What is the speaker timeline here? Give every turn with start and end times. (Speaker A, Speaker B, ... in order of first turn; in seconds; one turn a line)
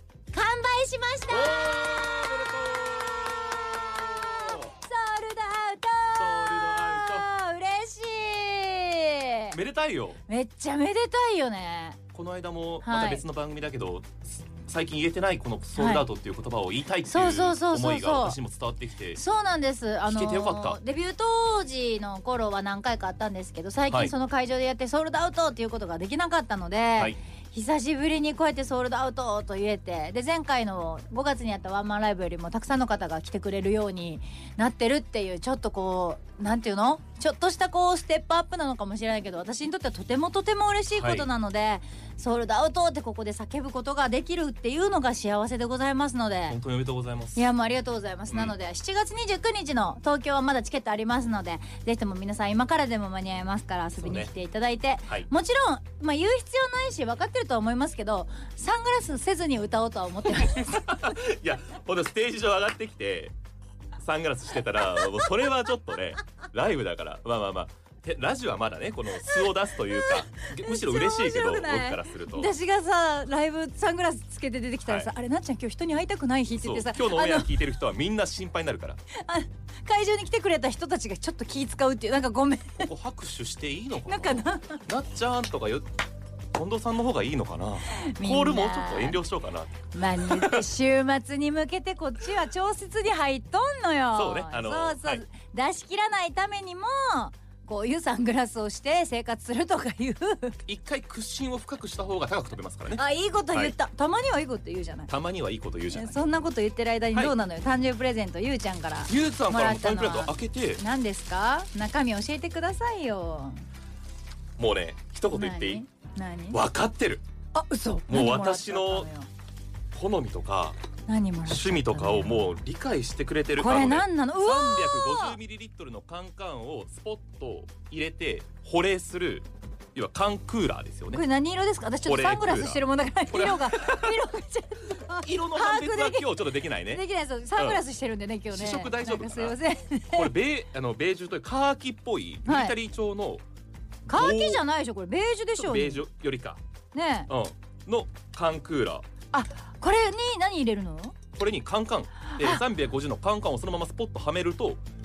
Speaker A: 0.3-2.3
Speaker B: 1.3-4.7
Speaker A: 4.8-9.6
Speaker B: 6.2-7.3
Speaker B: 9.5-10.2
Speaker A: 10.3-12.0
Speaker B: 12.1-19.2
Speaker A: 12.8-13.2
Speaker A: 15.8-16.1
Speaker A: 17.1-18.4
Speaker A: 19.2-46.6
Speaker B: 20.1-20.8
Speaker B: 41.0-41.3
Speaker B: 46.5-47.5
Speaker A: 47.4-61.0
Speaker B: 54.0-54.3
Speaker B: 60.6-63.3
Speaker B: 64.0-72.5
Speaker A: 65.0-65.2
Speaker A: 69.2-77.5
Speaker B: 76.5-79.0
Speaker A: 79.2-82.9
Speaker B: 82.8-85.8
Speaker A: 84.1-84.8
Speaker B: 86.5-90.6
Speaker A: 87.9-89.2
Speaker A: 89.9-100.6
Speaker B: 94.1-95.2
Speaker B: 100.7-103.0
Speaker A: 103.0-105.1
Speaker B: 105.1-106.2
Speaker A: 105.9-113.7
Speaker B: 109.1-110.8
Speaker B: 114.6-115.8
Speaker A: 115.3-116.6
Speaker B: 116.5-117.2
Speaker A: 117.5-119.3
Speaker B: 118.1-119.1
Speaker B: 119.9-120.8
Speaker A: 121.1-122.5
Speaker B: 121.5-131.2
Speaker A: 123.6-125.4
Speaker A: 131.1-140.3
Speaker B: 132.1-134.2
Speaker B: 135.2-137.0
Speaker B: 137.6-137.8
Speaker B: 138.5-139.6
Speaker B: 140.1-143.4
Speaker A: 142.5-142.8
Speaker A: 144.1-146.0
Speaker B: 144.1-144.6
Speaker B: 145.6-146.6
Speaker A: 146.9-147.3
Speaker B: 147.3-149.1
Speaker A: 149.3-151.2
Speaker B: 151.4-154.8
Speaker A: 152.3-152.6